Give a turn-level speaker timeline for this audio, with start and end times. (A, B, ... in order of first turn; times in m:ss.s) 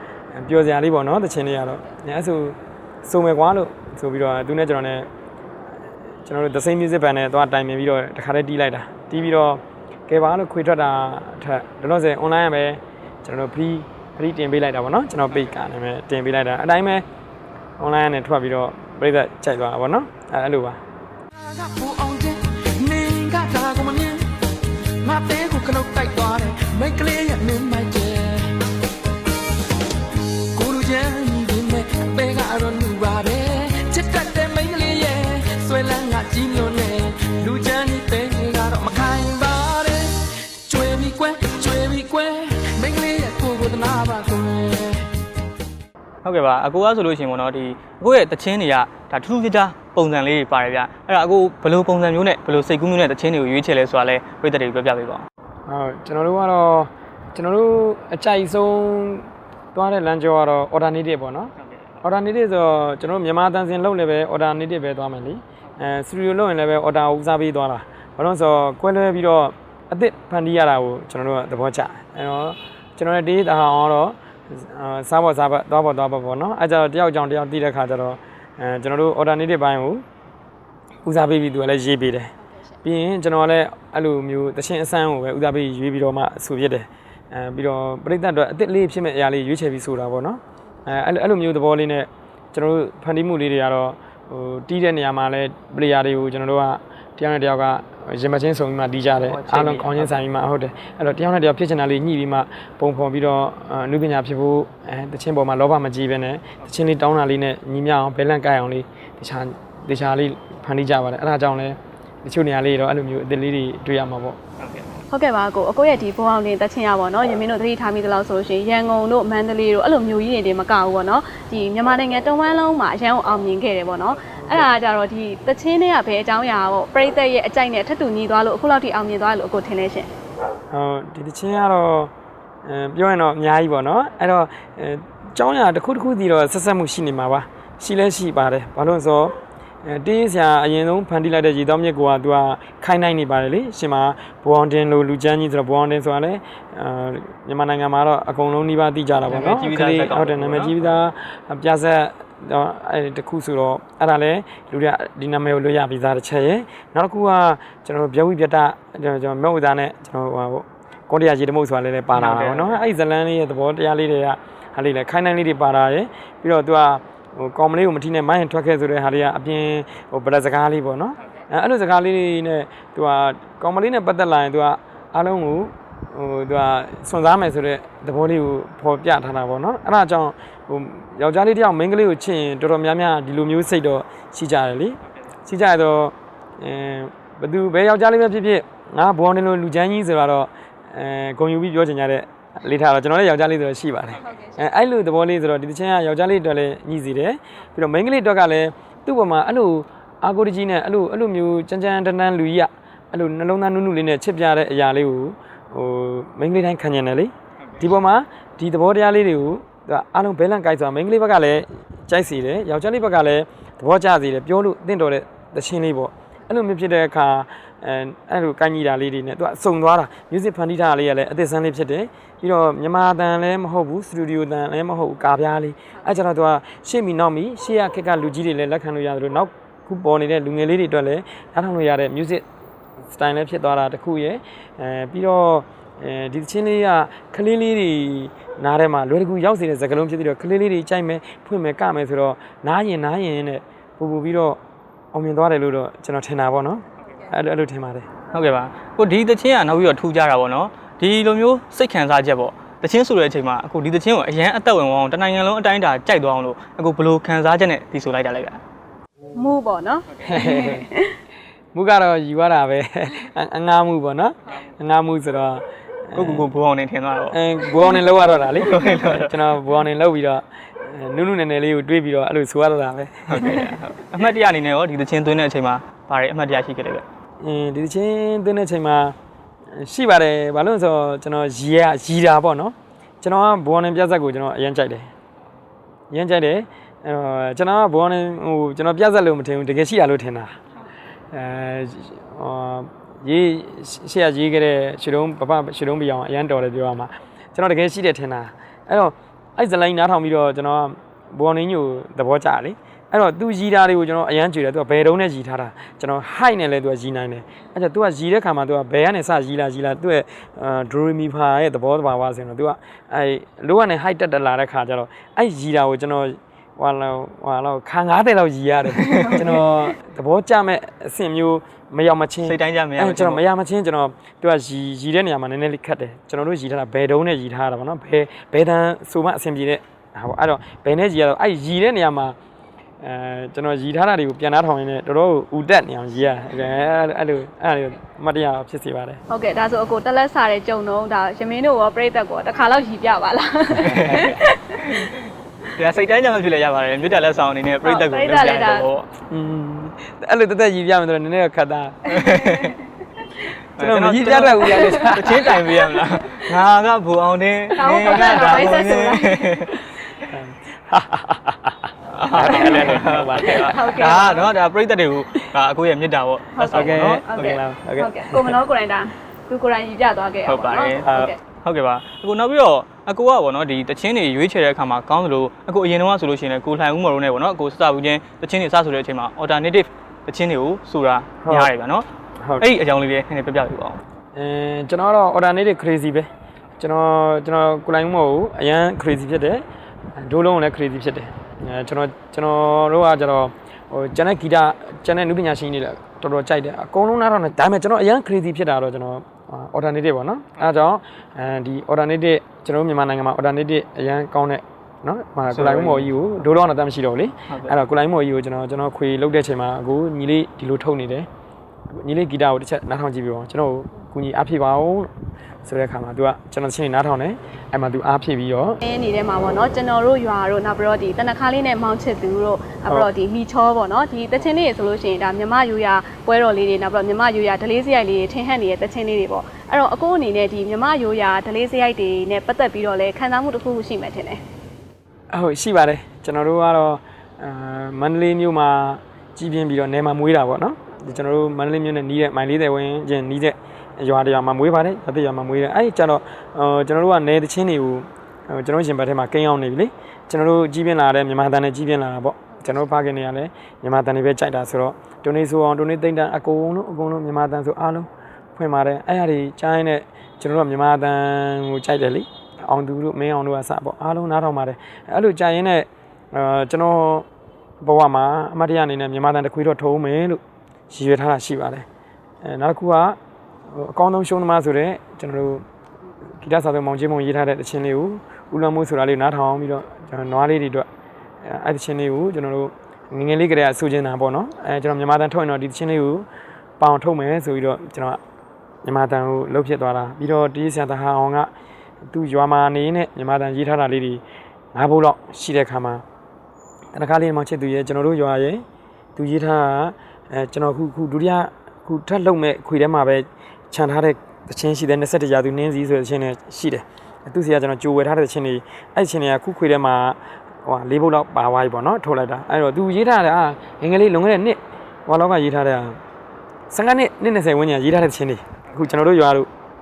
0:00.3-0:05.1 A
0:06.2-0:17.0 A
0:17.8-0:20.8 A
0:21.4-0:24.2 B
0:25.2-0:28.5 B
0:30.7-0:40.1 B
0:40.7-0:45.0 B
0:46.2-0:55.2 C
0:55.7-1:20.0 A
1:21.0-1:54.4 A
1:39.3-1:40.2 C
1:54.6-1:55.0 C
1:55.1-2:10.1 D
2:04.4-2:04.7 A
2:10.7-2:12.1 A
2:12.6-2:19.3 A
2:19.8-3:52.4 A
2:29.3-2:30.9 C
2:42.1-2:42.8 C
3:53.0-4:04.6 A
4:05.1-4:08.1 A
4:08.3-4:18.6 C
4:19.3-4:21.2 D
4:20.2-4:20.9 A
4:21.7-4:26.5 A
4:26.1-4:27.4 C
4:27.3-4:33.7 A
4:28.6-4:29.4 C
4:33.3-4:37.0 C
4:37.4-4:39.1 A
4:39.7-4:45.1 A
4:46.1-4:50.6 A
4:51.3-5:32.4 A
5:19.0-5:19.5 C
5:22.4-5:23.4 C
5:33.0-5:39.2 A
5:39.3-5:44.9 D
5:43.8-5:49.1 C
5:47.8-5:48.9 D
5:49.3-5:52.2 A
5:52.1-5:52.7 C
5:52.2-5:52.7 D
5:53.8-5:59.8 C
5:53.8-5:55.9 A
5:54.8-5:55.0 D
5:57.8-5:59.6 D
5:58.0-5:58.6 A
6:00.2-6:03.8 A
6:02.1-6:07.6 C
6:02.5-6:04.5 D
6:06.6-6:11.4 D
6:06.7-6:08.6 A
6:10.4-6:11.1 C
6:11.0-6:11.3 A
6:11.6-6:22.1 C
6:21.4-6:21.7 A
6:22.4-6:22.6 A
6:22.6-6:24.0 C
6:24.3-6:29.6 A
6:30.2-6:51.3 A
6:45.5-6:46.1 C
6:47.5-6:47.7 C
6:51.9-6:55.1 A
6:55.6-6:58.8 A
6:58.8-7:14.4 D
7:15.3-7:47.2 A
7:47.8-7:51.8 A
7:52.4-7:53.2 A
7:53.7-7:55.6 A
7:56.4-8:00.9 A
8:01.4-8:06.3 A
8:06.8-8:08.2 A
8:08.8-8:11.5 A
8:12.1-8:14.2 A
8:14.7-8:16.0 A
8:16.9-8:18.6 A
8:19.2-8:36.0 A
8:36.7-8:39.5 A